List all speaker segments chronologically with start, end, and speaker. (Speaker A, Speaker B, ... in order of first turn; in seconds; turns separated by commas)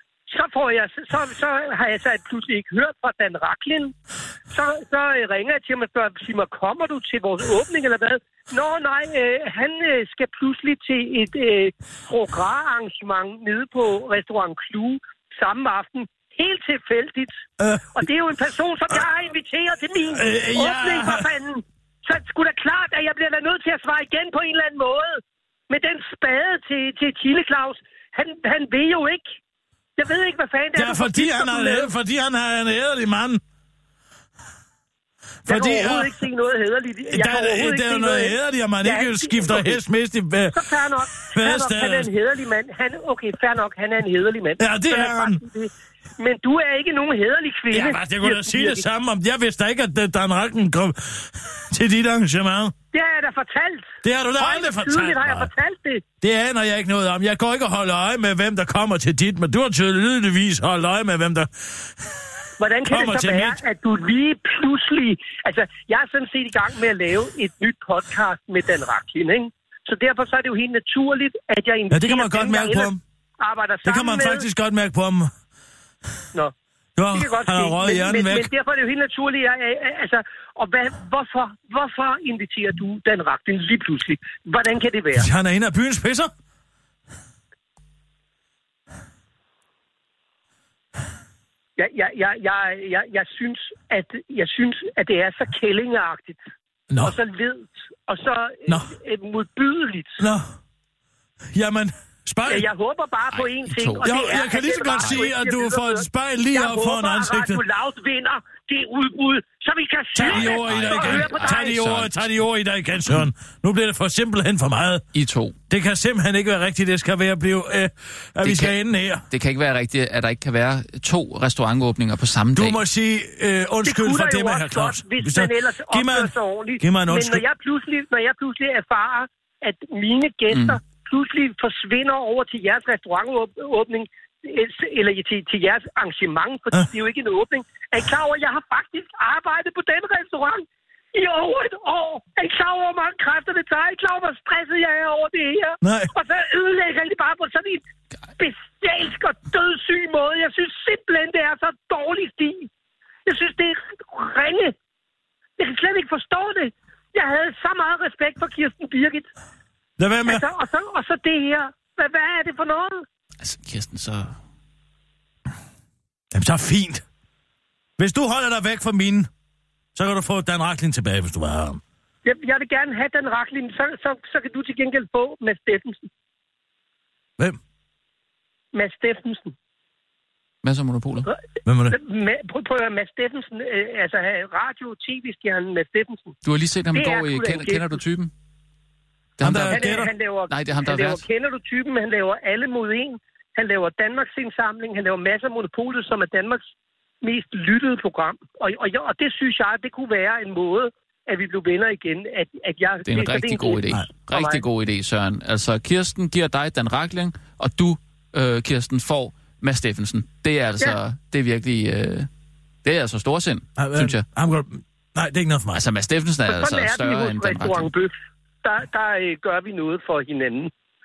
Speaker A: 0.3-3.9, Speaker A: 4.5-17.4, Speaker B: 17.6-18.0, Speaker A: 17.9-29.3, Speaker B: 20.1-21.3, Speaker A: 30.0-31.9, Speaker B: 30.7-33.4, Speaker B: 35.5-36.2, Speaker A: 35.5-39.8, Speaker B: 37.1-40.6, Speaker A: 40.5-48.8, Speaker B: 41.2-42.1, Speaker B: 44.6-45.4, Speaker B: 47.7-52.7, Speaker A: 52.9-56.0, Speaker B: 54.0-55.5, Speaker B: 56.2-61.9, Speaker A: 62.6-74.5, Speaker B: 62.9-63.6, Speaker B: 71.9-73.0, Speaker B: 73.8-75.3, Speaker B: 77.0-78.5, Speaker A: 77.1-85.3, Speaker B: 85.1-86.3, Speaker A: 91.8-96.4, Speaker B: 96.9-97.1, Speaker A: 97.0-100.2, Speaker B: 100.2-100.5, Speaker B: 101.5-102.7, Speaker A: 102.5-111.7, Speaker C: 103.3-105.2, Speaker B: 104.0-107.6, Speaker B: 110.1-115.0, Speaker C: 110.3-112.3, Speaker C: 115.1-115.5, Speaker B: 115.7-119.2, Speaker C: 118.4-118.7, Speaker C: 119.3-122.8, Speaker B: 122.5-127.4, Speaker A: 123.8-147.8, Speaker C: 130.5-130.8, Speaker B: 145.8-146.1, Speaker A: 148.4-152.7, Speaker A: 153.2-154.7, Speaker A: 155.6-159.3, Speaker B: 160.0-160.4, Speaker A: 160.2-163.0, Speaker C: 163.4-164.3, Speaker B: 166.3-167.0, Speaker B: 168.0-169.3, Speaker B: 169.9-171.8, Speaker A: 172.2-176.1, Speaker A: 178.7-179.5, Speaker C: 180.6-181.3, Speaker B: 181.6-182.0, Speaker A: 181.9-186.3, Speaker C: 186.4-188.3, Speaker A: 186.9-188.0, Speaker C: 189.4-191.2, Speaker B: 189.4-190.1, Speaker A: 189.6-196.6, Speaker A: 197.2-204.6, Speaker C: 203.0-212.3, Speaker C: 212.8-214.2, Speaker B: 213.8-215.8, Speaker C: 215.7-217.9, Speaker A: 216.5-220.7